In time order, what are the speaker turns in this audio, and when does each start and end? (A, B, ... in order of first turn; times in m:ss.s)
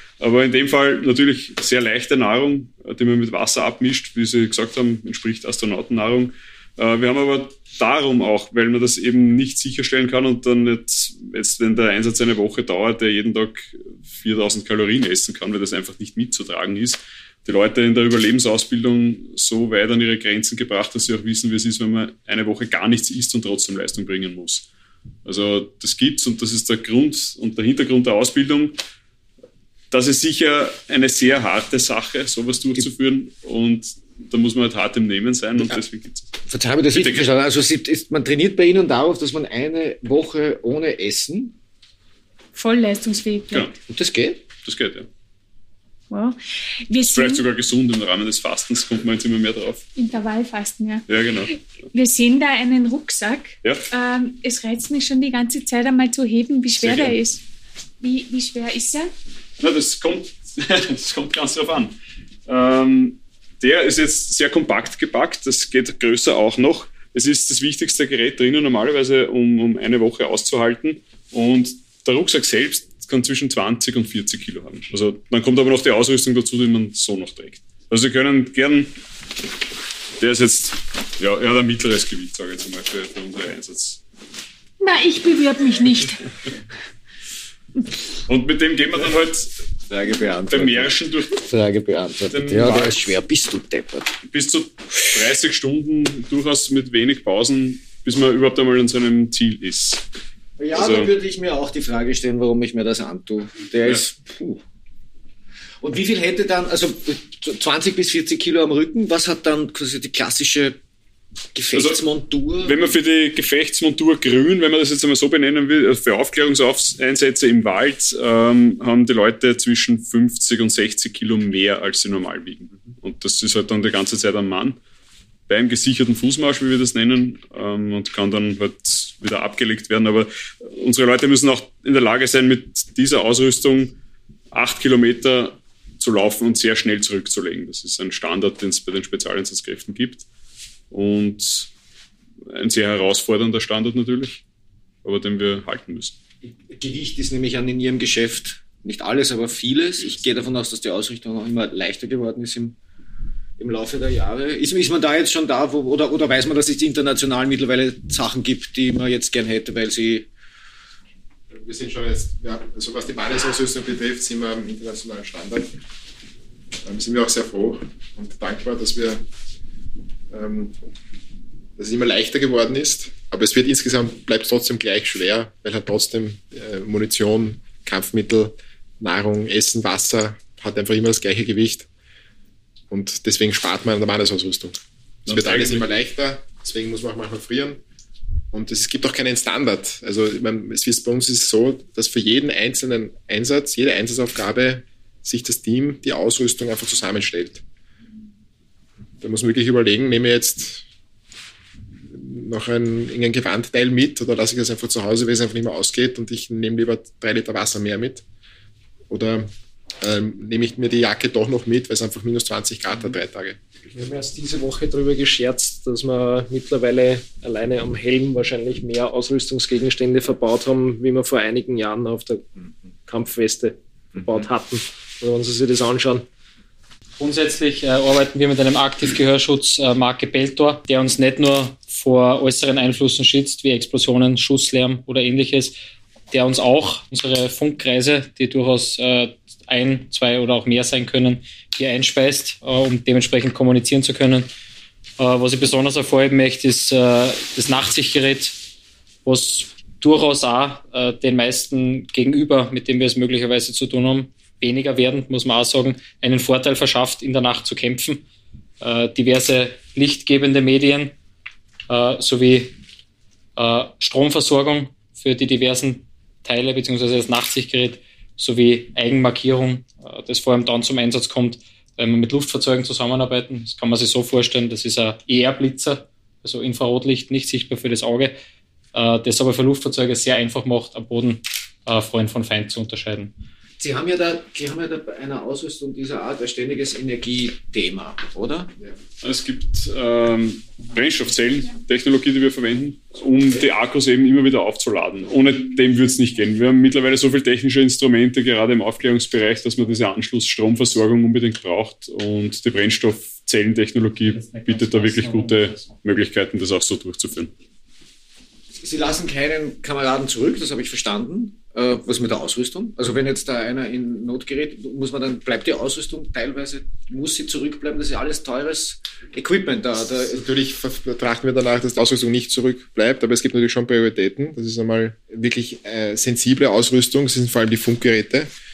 0:00.2-0:24.7 A
0:25.2-0:28.8 A
0:29.9-0:36.3 A
0:36.4-0:41.6 B
0:36.9-0:37.3 A
0:42.5-0:43.7 C
0:43.9-0:44.4 B
0:44.6-0:45.1 A
0:46.1-0:47.4 C
0:47.0-0:49.9 A
0:50.0-0:57.4 C
0:51.1-0:51.5 A
0:56.7-0:57.2 A
0:58.0-0:59.1 C
0:59.6-1:01.9 A
1:02.5-1:18.9 A
1:20.2-1:24.0 A
1:24.8-1:26.2 C
1:28.3-1:29.6 A
1:29.9-1:34.2 B
1:30.5-1:31.5 A
1:32.3-1:33.1 A
1:34.2-1:40.0 A
1:40.6-1:44.6 B
1:40.7-1:41.1 A
1:45.8-1:50.8 B
1:51.5-1:52.9 B
1:51.7-1:52.0 A
1:52.6-2:04.8 A
2:05.5-2:14.0 A
2:14.5-2:20.3 A
2:20.9-2:21.7 A
2:22.5-2:24.4 A
2:25.0-2:26.2 A
2:26.4-2:32.8 B
2:33.6-2:40.3 B
2:41.5-2:45.7 D
2:46.8-2:49.2 D
2:50.3-2:50.7 D
2:51.8-3:01.9 D
3:02.9-3:07.8 D
3:05.2-3:05.9 A
3:08.5-3:17.6 D
3:19.2-3:20.8 D
3:22.1-3:28.2 D
3:29.1-3:33.6 D
3:33.9-3:46.2 E
3:47.2-3:55.7 F
3:56.3-4:04.5 F
4:05.2-4:08.6 F
4:09.2-4:18.2 F
4:18.8-4:21.1 F
4:21.9-4:22.8 F
4:23.6-4:38.4 F
4:38.9-4:43.3 F
4:43.8-4:48.7 B
4:49.2-5:07.5 A
5:04.2-5:06.0 F
5:08.8-5:20.4 B
5:20.2-5:28.5 D